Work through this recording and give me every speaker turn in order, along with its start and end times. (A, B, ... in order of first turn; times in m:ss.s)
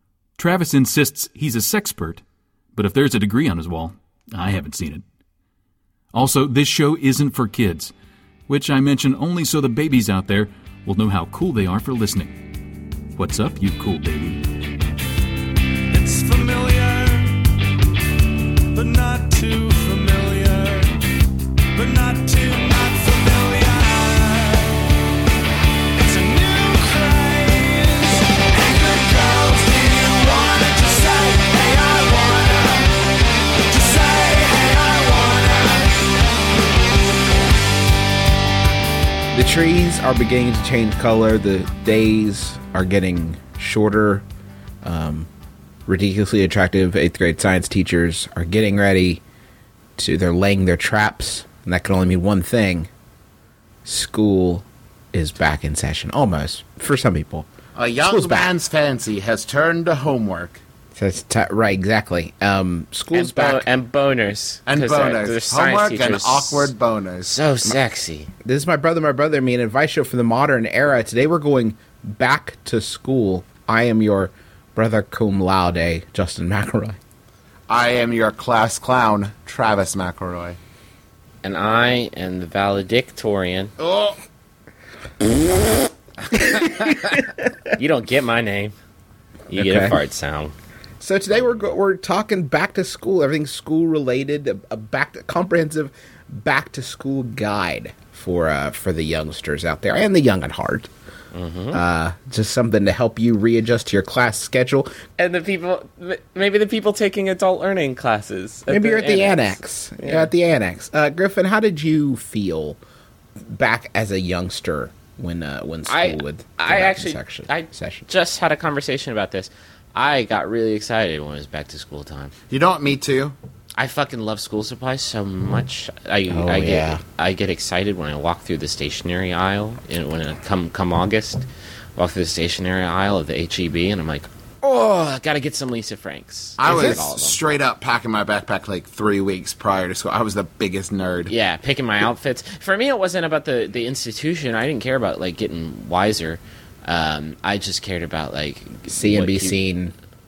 0:00.4-0:02.2 A
0:02.8-0:05.0 A
0:06.1-0:07.9 A
0:08.5-0:12.4 A
0:13.2-0:14.4 A
0:15.9-0:17.5 B
0:18.7-0:21.0 B
0:21.7-0:24.9 B
0:26.0-0:33.0 B
0:33.7-0:36.3 B
0:39.3-0:44.2 C
0:44.8-0:45.3 C
0:45.9-0:49.2 C
0:50.0-0:52.9 C
0:53.8-0:57.5 C
0:57.8-1:00.6 D
0:58.0-0:58.5 C
1:01.0-1:03.7 C
1:03.1-1:08.3 E
1:04.7-1:07.3 D
1:08.4-1:17.0 C
1:17.7-1:20.6 D
1:21.4-1:23.7 E
1:23.8-1:24.2 D
1:26.4-1:27.2 C
1:27.7-1:28.8 E
1:29.5-1:30.5 E
1:29.6-1:30.0 C
1:31.0-1:40.9 C
1:41.3-1:41.8 E
1:41.7-1:44.9 C
1:45.2-1:50.3 E
1:48.7-1:52.8 C
1:53.5-1:58.1 C
1:55.9-2:02.3 E
2:02.5-2:03.4 D
2:03.8-2:17.4 E
2:06.3-2:07.0 C
2:16.6-2:21.3 D
2:16.7-2:17.0 C
2:21.3-2:29.6 E
2:28.9-2:30.0 C